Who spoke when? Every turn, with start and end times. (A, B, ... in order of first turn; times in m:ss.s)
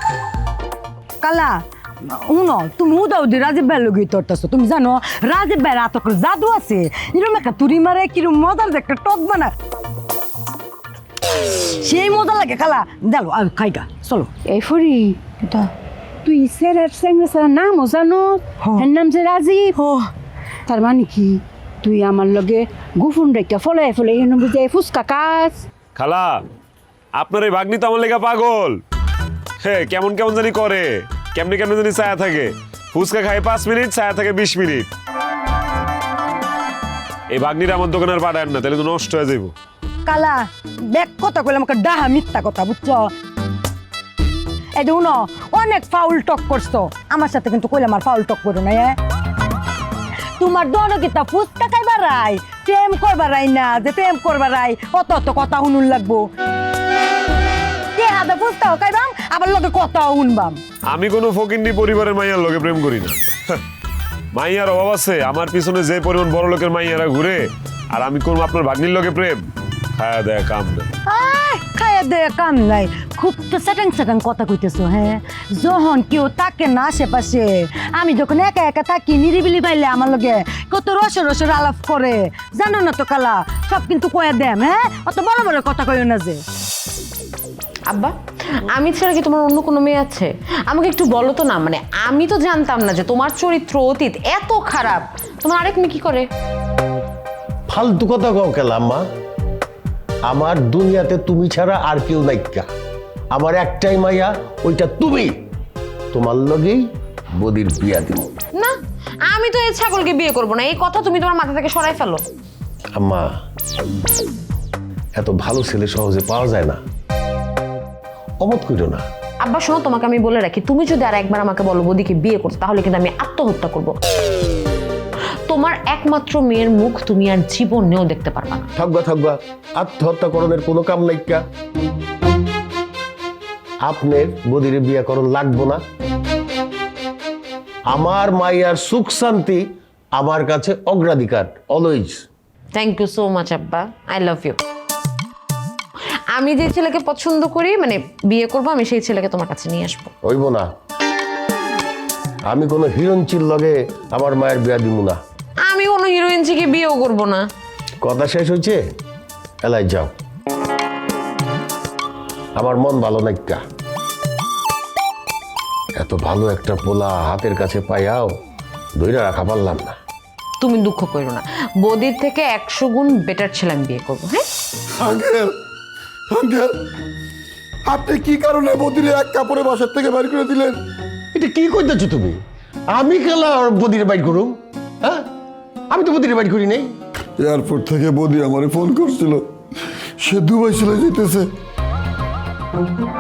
0:01.2-0:09.5 A
0:11.8-0:14.3 A
0:14.5-0:15.2 B
0:16.2-0:19.8 B
0:19.8-0:20.1 A
0:20.7-0:25.6 B
0:26.0-0:26.4 C
0:27.2-0:28.8 C
0:29.6-0:34.9 C
0:37.3-0:39.5 C
0:40.1-0:43.1 A
0:44.8-0:49.0 A
0:50.4-0:56.3 A
0:58.0-1:00.6 A
1:00.9-1:03.6 C
1:04.3-1:09.4 C
1:10.0-1:10.9 C
1:11.1-1:26.4 A
1:27.9-1:36.3 D
1:37.7-1:39.1 E
1:40.3-1:42.7 E
1:43.3-1:45.4 E
1:46.1-1:46.9 E
1:47.4-1:48.3 E
1:48.6-1:52.2 D
1:53.0-1:53.4 E
1:55.2-1:56.8 E
1:58.4-1:59.0 E
1:59.4-2:04.0 D
2:05.5-2:08.7 D
2:08.8-2:11.4 E
2:13.8-2:15.8 E
2:17.9-2:22.2 E
2:22.7-2:24.6 D
2:26.3-2:30.1 D
2:30.2-2:30.7 E
2:32.5-2:35.2 E
2:35.7-2:37.4 D
2:38.0-2:38.8 E
2:39.6-2:40.1 E
2:42.6-2:43.6 E
2:46.0-2:48.4 E
2:49.0-2:50.0 E
2:50.6-2:54.4 D
2:55.0-2:55.5 F
2:56.3-2:56.8 F
2:57.9-3:00.8 F
3:01.3-3:02.4 E
3:02.9-3:05.3 E
3:05.9-3:07.0 E
3:07.4-3:09.4 F
3:10.2-3:11.5 F